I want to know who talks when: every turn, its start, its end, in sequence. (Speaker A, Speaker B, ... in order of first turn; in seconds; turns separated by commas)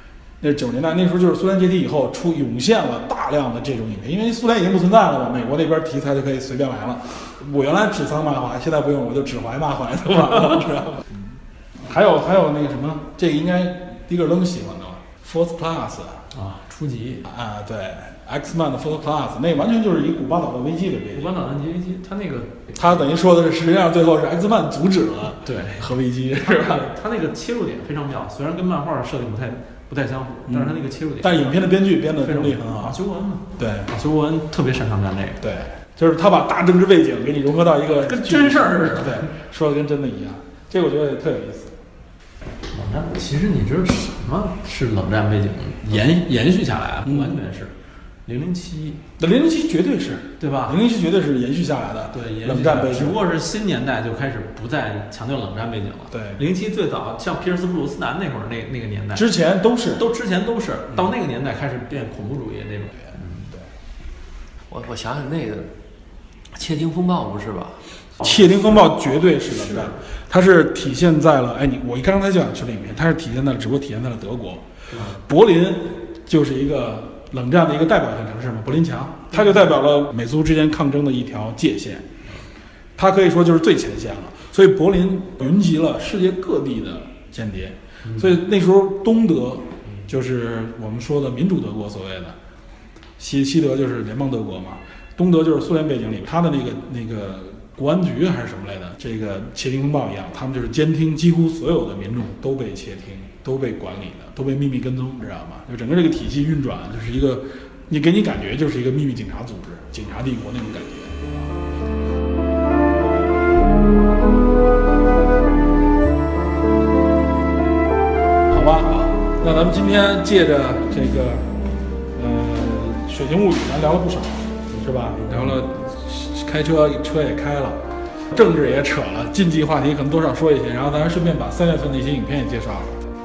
Speaker A: 0.4-11.2, Speaker A: 11.8-16.3, Speaker B: 16.3-17.3, Speaker A: 17.2-21.3, Speaker B: 21.1-22.8, Speaker A: 22.8-26.9, Speaker B: 25.4-25.9, Speaker B: 26.4-31.6, Speaker A: 30.5-33.0, Speaker B: 32.2-35.4, Speaker A: 33.6-33.9, Speaker A: 35.4-41.8, Speaker B: 38.0-39.3, Speaker B: 42.7-47.7, Speaker A: 47.0-47.4, Speaker B: 48.3-49.0, Speaker A: 49.2-53.2, Speaker B: 50.4-50.8, Speaker B: 52.1-59.3, Speaker A: 56.1-56.4, Speaker A: 59.1-60.0, Speaker B: 60.0-63.5, Speaker C: 64.7-65.7, Speaker C: 66.5-67.8, Speaker A: 68.2-82.1, Speaker B: 68.2-68.6, Speaker B: 69.6-70.0, Speaker B: 74.9-75.2, Speaker B: 79.3-79.6, Speaker A: 83.0-92.4, Speaker A: 93.2-111.5, Speaker A: 118.5-121.5, Speaker A: 122.1-133.0